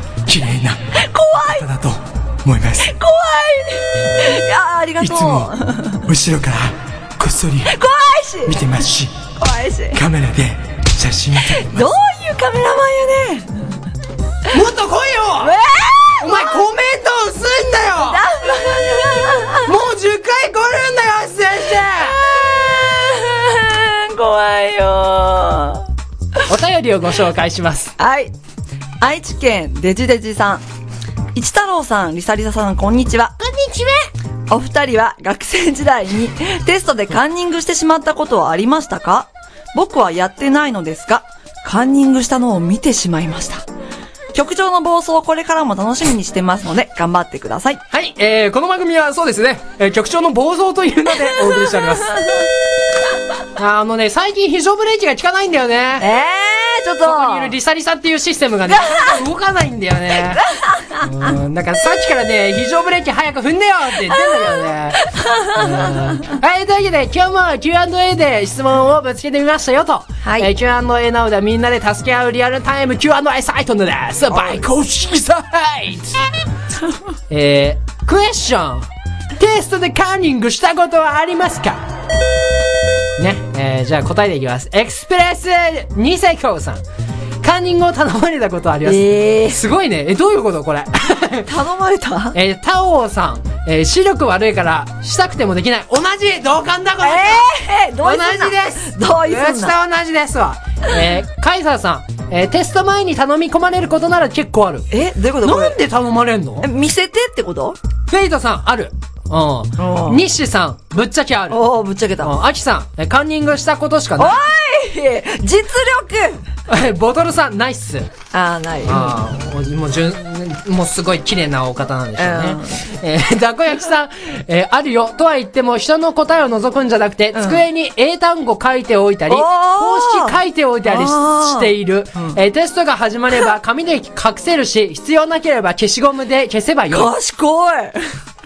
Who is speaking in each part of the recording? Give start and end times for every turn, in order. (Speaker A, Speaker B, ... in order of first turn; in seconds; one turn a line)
Speaker A: 0.3-0.8
Speaker B: 0.9-1.7
Speaker A: 1.5-2.9
Speaker B: 2.8-6.1
Speaker A: 5.0-7.8
Speaker B: 7.7-8.6
Speaker A: 8.5-9.1
Speaker B: 9.4-10.0
Speaker A: 9.9-11.9
Speaker B: 11.4-13.8
Speaker C: 14.5-15.6
Speaker B: 15.4-16.6
Speaker C: 16.2-18.2
Speaker B: 18.0-19.7
Speaker C: 19.6-22.2
Speaker B: 21.8-25.9
Speaker C: 26.5-27.9
Speaker B: 28.0-28.3
Speaker B: 29.0-30.6
Speaker B: 31.3-33.3
Speaker C: 33.4-34.1
Speaker B: 34.5-43.7
Speaker B: 44.3-47.8
Speaker C: 47.9-52.2
Speaker B: 51.3-52.5
Speaker C: 53.6-56.1
Speaker B: 56.0-57.5
Speaker C: 57.0-60.4
Speaker B: 58.7-59.2
Speaker B: 60.2-61.3
Speaker C: 61.0-65.0
Speaker B: 64.1-66.4
Speaker C: 65.5-76.2
Speaker B: 70.2-70.5
Speaker C: 77.3-81.8
Speaker C: 83.2-86.8
Speaker C: 87.4-91.5
Speaker B: 88.8-89.6
Speaker B: 91.5-92.4
Speaker C: 92.3-97.5
Speaker B: 97.0-99.8
Speaker C: 98.0-104.9
Speaker B: 104.9-105.8
Speaker C: 105.4-106.7
Speaker B: 106.6-107.8
Speaker C: 108.1-111.6
Speaker B: 109.8-110.2
Speaker B: 111.5-112.4
Speaker C: 112.2-114.4
Speaker B: 114.2-116.4
Speaker C: 116.7-118.1
Speaker B: 118.3-119.2
Speaker C: 118.8-137.1
Speaker B: 122.2-122.8
Speaker B: 127.3-127.6
Speaker B: 129.3-132.4
Speaker B: 136.9-138.1